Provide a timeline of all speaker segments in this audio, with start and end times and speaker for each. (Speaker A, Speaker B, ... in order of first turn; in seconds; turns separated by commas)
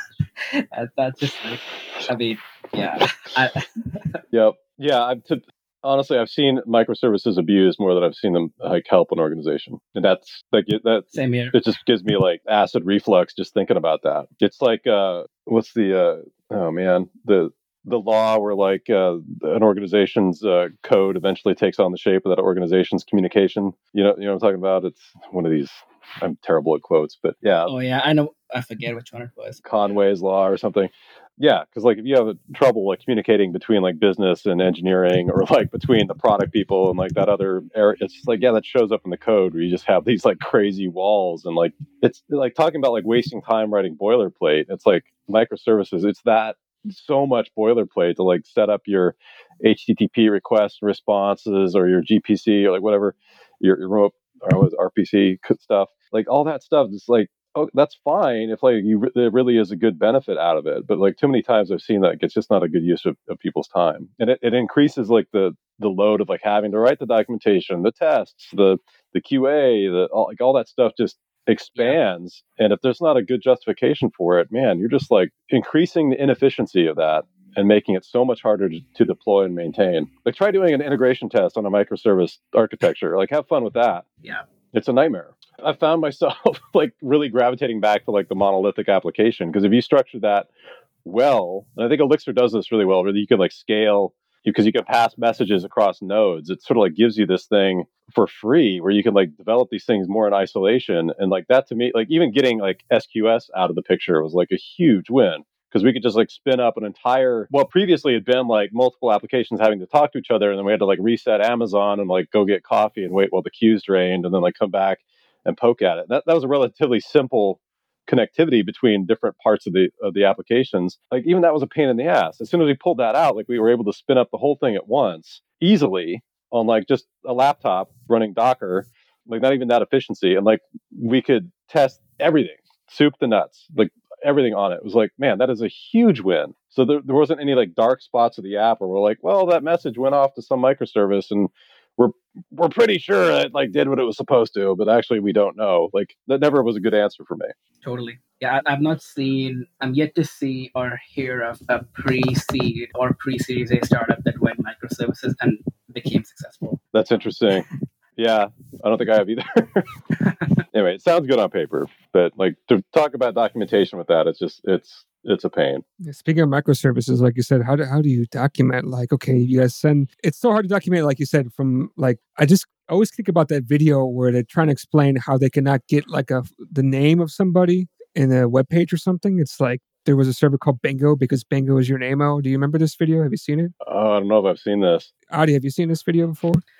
Speaker A: 0.4-4.2, Speaker B: 4.3-27.7, Speaker A: 11.1-11.6, Speaker A: 27.7-29.6, Speaker B: 29.6-84.0, Speaker B: 84.7-90.5, Speaker B: 91.0-147.5, Speaker A: 147.8-156.8, Speaker B: 156.9-159.9, Speaker A: 160.2-160.6, Speaker B: 160.7-165.8, Speaker C: 166.0-183.7, Speaker B: 183.8-185.1, Speaker C: 185.3-186.6